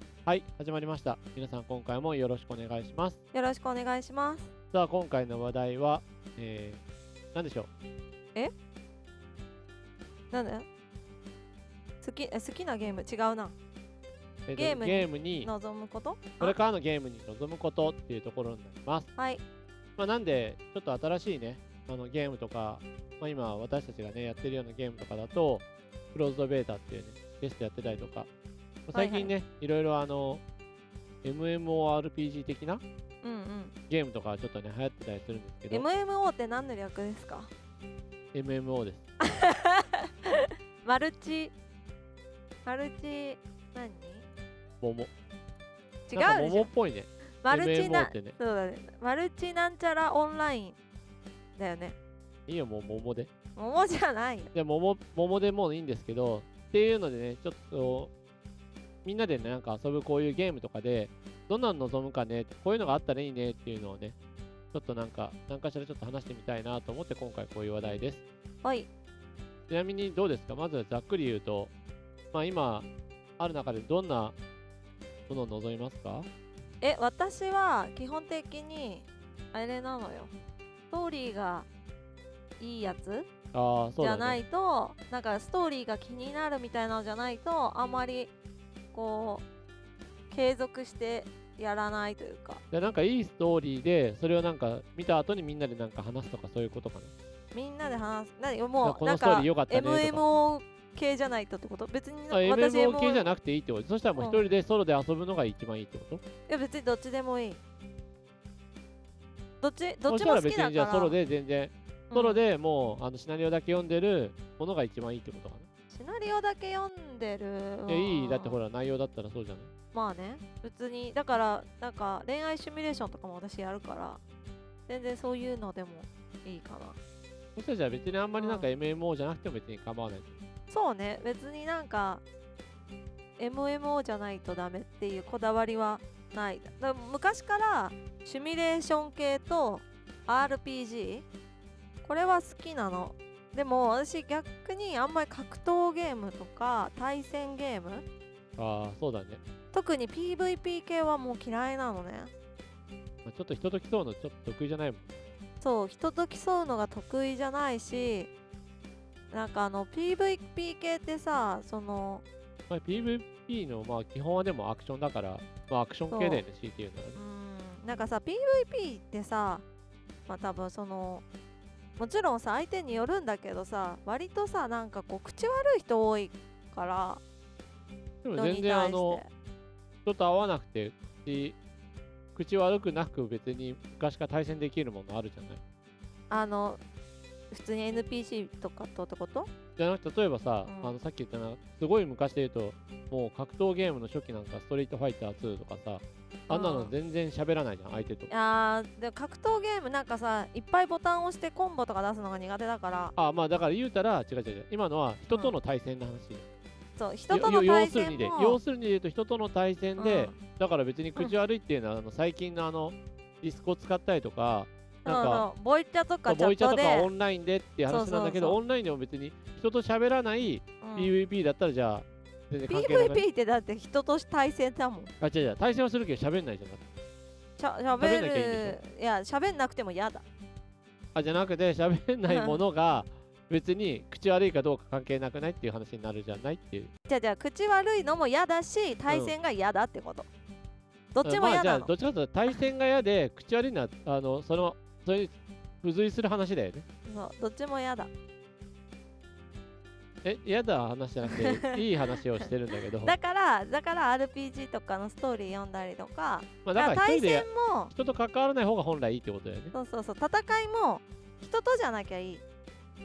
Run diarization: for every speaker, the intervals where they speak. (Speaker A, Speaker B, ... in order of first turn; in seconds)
Speaker A: 0.2-3.2, 4.7-6.8, 7.3-7.7, 14.5-15.5, 16.4-19.1, 20.0-28.3, 28.9-30.4, 31.2-32.8, 33.9-35.9, 38.3-39.0, 44.8-45.1, 46.1-48.4, 52.5-53.3, 54.5-58.1, 59.0-64.2, 64.7-68.2, 69.7-71.7, 72.3-72.9, 73.4-74.3, 75.3-76.3, 83.5-84.4, 92.7-97.1, 98.8-100.2, 102.3-106.2, 110.0-115.7, 117.9-119.7, 127.5-130.4, 148.6-149.4, 153.2-155.1, 162.7-167.2, 178.2-179.2, 180.1-181.6, 182.3-185.6, 189.8-198.3, 203.2-206.5, 207.3-215.5, 216.2-223.2, 225.2-226.8, 228.0-228.8, 231.1-236.9, 239.1-239.3, 241.2-246.8, 250.2-253.1, 256.6-259.7
Speaker B: 3.3-4.5, 10.3-10.7, 12.0-13.5, 14.6-16.6, 19.2-19.4, 28.9-29.3, 33.2-33.7, 35.7-37.5, 39.2-41.5, 42.6-44.2, 46.1-46.7, 47.4-50.8, 51.5-51.9, 53.5-54.5, 68.6-68.9, 76.8-80.3, 80.9-81.7, 82.6-83.3, 84.0-88.3, 88.9-89.4, 90.3-92.6, 97.5-103.3, 104.2-104.5, 106.5-107.6, 109.6-111.2, 112.1-112.4, 115.9-118.6, 119.9-124.2, 124.9-127.0, 128.4-128.7, 130.7-132.2, 133.4-141.2, 142.0-148.0, 149.7-152.3, 155.6-158.3, 159.3-162.2, 166.1-166.4, 167.2-169.6, 170.3-171.2, 172.0-177.2, 178.3-179.3, 186.3-186.8, 187.5-189.5, 190.7-190.9, 196.5-196.9, 198.3-203.1, 205.3-205.6, 207.0-208.6, 210.0-210.4, 215.0-217.1, 217.9-218.6, 220.8-221.1, 222.7-225.1, 227.6-230.2, 232.3-232.6, 237.1-240.3, 241.1-241.9, 247.1-248.1, 251.2-251.8, 253.0-257.9, 259.7-262.4